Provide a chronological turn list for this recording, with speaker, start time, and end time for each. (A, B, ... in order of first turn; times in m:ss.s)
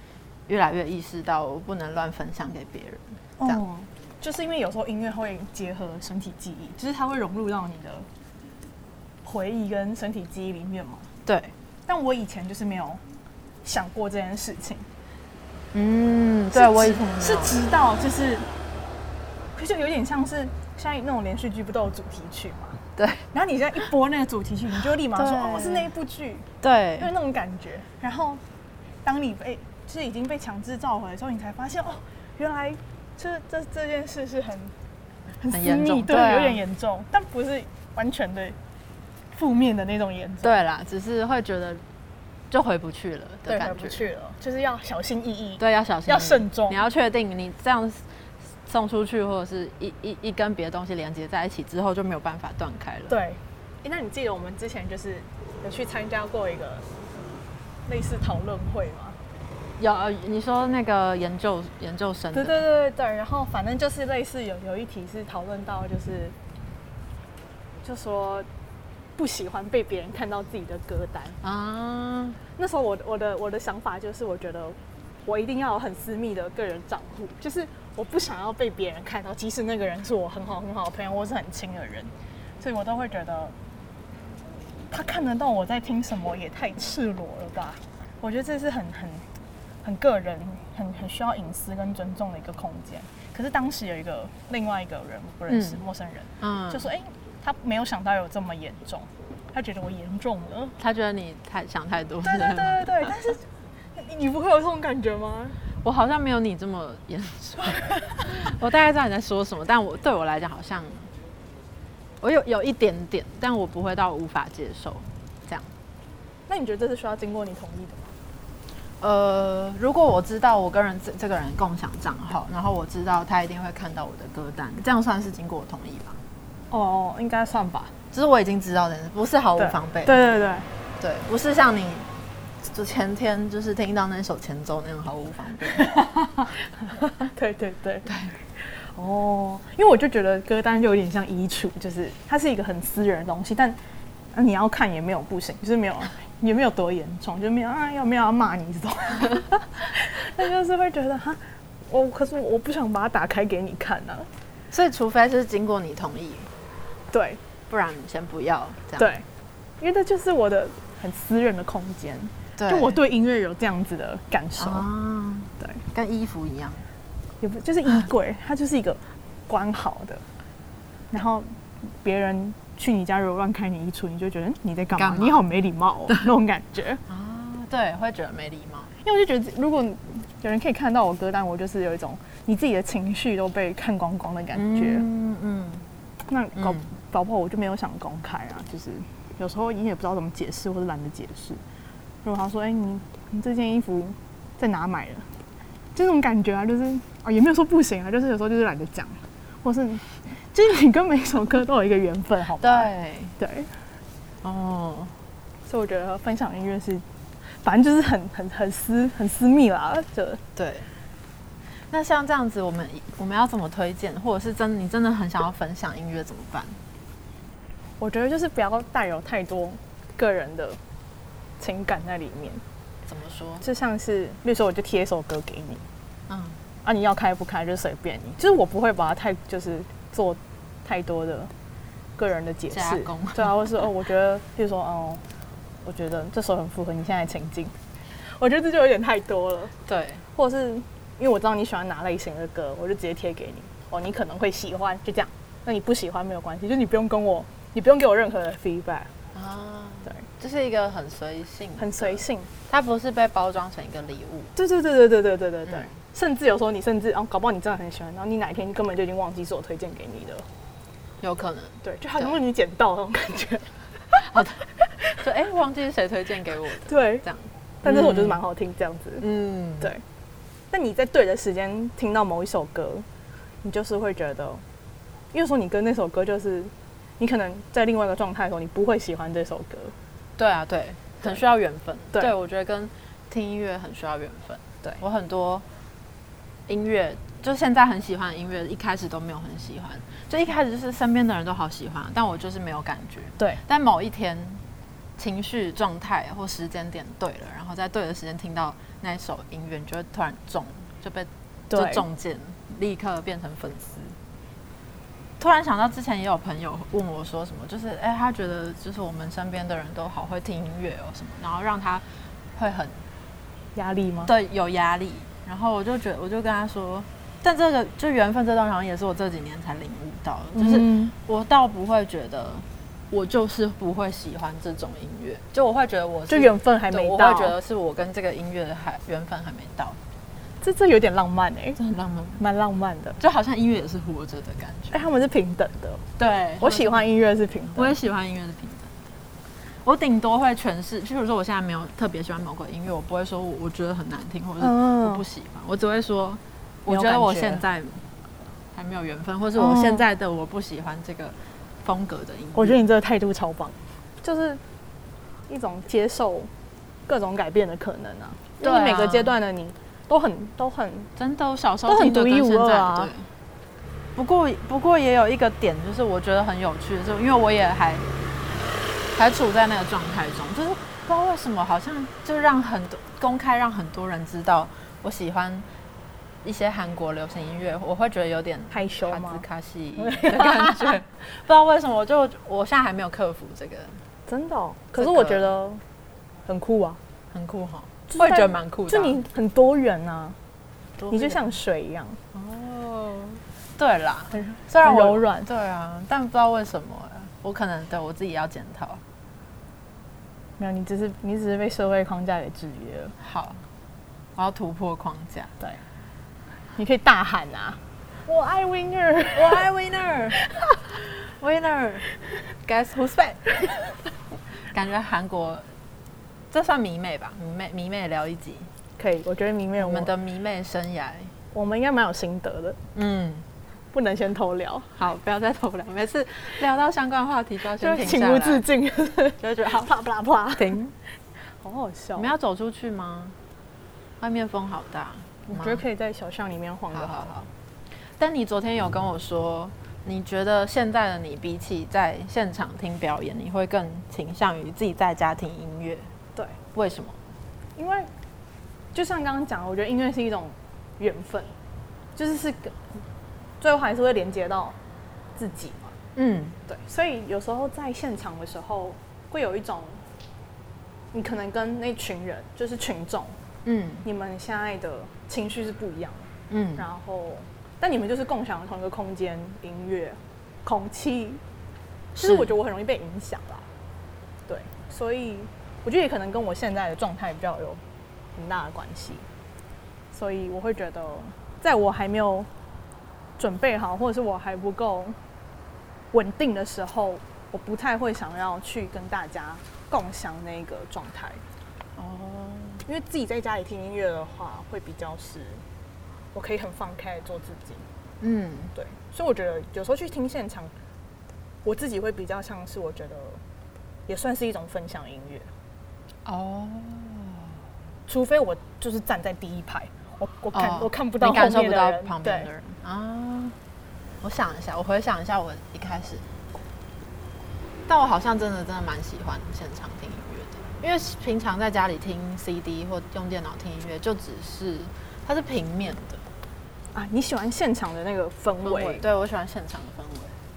0:00.5-0:03.6 A
0:03.4-0:08.1 B
0:09.2-0:11.1 B
0:11.2-0:11.5 A
0:11.9-0:13.0 B
0:13.6-0:14.9 B
0:15.7-0:17.5 A
0:16.5-0:18.5 B
0:19.5-0:22.8 B
0:23.0-0:23.3 A
0:23.3-0:26.5 B
0:25.1-0:25.9 A
0:26.6-0:27.1 A
0:27.0-0:28.4 B
0:29.0-0:34.7 B
0:35.4-0:38.6 B
0:35.5-0:36.6 A
0:39.3-0:40.5 B
0:40.4-0:41.8 A
0:42.5-0:44.0 A
0:43.5-0:46.8 B
0:45.6-0:48.0 A
0:48.7-0:53.2 A
0:53.1-0:56.9 B
0:57.8-0:59.2 B
0:59.8-1:02.6 A
1:02.3-1:06.3 B
1:07.8-1:08.5 B
1:09.2-1:11.4 B
1:11.4-1:12.4 A
1:12.6-1:23.5 B
1:24.9-1:29.2 B
1:29.8-1:40.7 B
1:35.5-1:35.8 A
1:36.4-1:36.9 A
1:40.8-1:43.1 A
1:42.2-1:43.4 B
1:44.0-1:45.6 B
1:45.8-1:51.1 A
1:47.8-1:48.1 B
1:52.2-1:55.7 A
1:56.5-1:58.1 B
1:59.0-2:06.2 A
2:06.7-2:07.9 B
2:08.1-2:10.2 A
2:09.6-2:10.7 B
2:11.0-2:12.1 A
2:12.7-2:16.0 A
2:15.7-2:23.8 B
2:18.0-2:18.3 A
2:24.3-2:34.3 B
2:34.7-2:36.5 A
2:37.1-2:37.4 B
2:37.7-2:39.1 A
2:39.0-2:39.2 B
2:39.8-2:44.9 B
2:42.6-2:43.0 A
2:44.6-2:46.8 A
2:47.4-2:50.2 B
2:51.1-2:57.0 B
2:55.0-2:55.4 A
2:57.1-2:58.9 A
2:59.0-3:05.1 B
3:04.5-3:05.8 A
3:06.3-3:11.6 B
3:06.6-3:06.9 A
3:12.2-3:15.3 B
3:15.9-3:23.7 B
3:22.6-3:23.4 A
3:24.4-3:25.1 A
3:25.6-3:30.4 B
3:30.6-3:30.9 A
3:31.9-3:36.8 A
3:38.0-3:40.8 B
3:41.6-3:42.6 B
3:43.1-3:43.6 A
3:43.6-3:45.8 B
3:46.3-3:46.6 A
3:46.8-3:51.5 B
3:52.2-3:55.2 B
3:52.7-3:53.9 A
3:55.8-3:59.7 B
3:59.9-4:00.2 A
4:00.3-4:09.1 B
4:09.3-4:14.5 A
4:11.8-4:12.5 B
4:14.6-4:20.4 B
4:21.2-4:22.4 A
4:21.8-4:25.2 B
4:24.2-4:24.6 A
4:25.2-4:28.4 A
4:26.8-4:27.2 B
4:27.8-4:29.2 B
4:29.2-4:29.9 A
4:30.7-4:33.0 B
4:33.6-4:34.6 B
4:35.3-4:39.9 B
4:40.4-4:45.6 A
4:46.7-4:54.6 A
4:55.2-5:04.2 A
5:01.7-5:02.0 B
5:05.4-5:12.0 A
5:12.6-5:13.0 A
5:13.7-5:14.3 B
5:14.2-5:30.0 A
5:20.5-5:21.1 B
5:26.3-5:27.5 B
5:30.6-5:31.8 B
5:31.8-5:32.4 A
5:32.4-5:33.2 B
5:33.2-5:35.0 A
5:34.9-5:36.0 B
5:36.2-5:37.0 A
5:36.6-5:38.0 B
5:37.7-5:38.9 A
5:39.8-5:48.0 A
5:44.6-5:45.2 B
5:46.9-5:47.6 B
5:48.7-5:52.8 A
5:49.6-5:50.0 B
5:52.5-5:54.6 B
5:55.5-5:56.5 B
5:57.1-6:01.1 B
5:58.6-5:59.4 A
6:01.2-6:03.3 A
6:01.9-6:03.1 B
6:04.2-6:08.1 A
6:09.1-6:15.6 A
6:16.4-6:24.0 A
6:18.7-6:19.4 B
6:20.0-6:20.9 B
6:24.3-6:25.8 B
6:24.9-6:25.5 A
6:26.4-6:27.0 B
6:27.3-6:29.2 A
6:28.1-6:30.4 B
6:31.0-6:31.6 A
6:31.1-6:32.2 B
6:32.3-6:39.0 A
6:34.3-6:35.5 B
6:40.6-6:43.1 B
6:43.2-6:43.6 A
6:44.4-6:45.5 A
6:46.8-6:49.7 B
6:49.3-6:52.1 A
6:50.4-6:50.7 B
6:52.6-6:53.8 A
6:54.7-6:55.6 A
6:56.5-6:58.7 A
6:59.0-7:00.1 B
6:59.8-7:01.3 A
7:01.5-7:02.8 B
7:02.9-7:03.4 A
7:03.9-7:04.9 B
7:04.9-7:08.6 A
7:07.8-7:10.8 B
7:09.4-7:09.9 A
7:10.5-7:10.9 A
7:11.4-7:12.3 B
7:12.2-7:13.4 A
7:14.2-7:15.8 A
7:15.5-7:17.3 B
7:16.9-7:17.5 A
7:18.2-7:26.1 A
7:26.7-7:27.2 A
7:27.8-7:28.1 B
7:28.9-7:31.5 B
7:32.2-7:32.9 B
7:33.6-7:34.8 B
7:35.4-7:36.0 B
7:36.2-7:36.6 A
7:36.7-7:40.0 B
7:41.1-7:43.4 B
7:43.6-7:44.0 A
7:44.0-7:51.4 B
7:46.5-7:46.8 A
7:52.2-7:52.5 A
7:52.2-7:53.7 B
7:54.5-7:57.8 B
7:58.3-7:59.2 B
8:00.1-8:02.5 B
8:03.4-8:05.2 B
8:06.1-8:11.4 B
8:12.0-8:12.8 A
8:12.8-8:15.6 B
8:16.3-8:17.8 B
8:18.2-8:18.7 A
8:18.7-8:20.7 B
8:21.6-8:23.4 B
8:24.1-8:25.5 B
8:26.2-8:27.5 A
8:28.1-8:32.5 B
8:30.5-8:33.6 A
8:34.2-8:36.2 A
8:37.9-8:46.2 A
8:46.9-8:49.0 B
8:48.6-8:50.4 A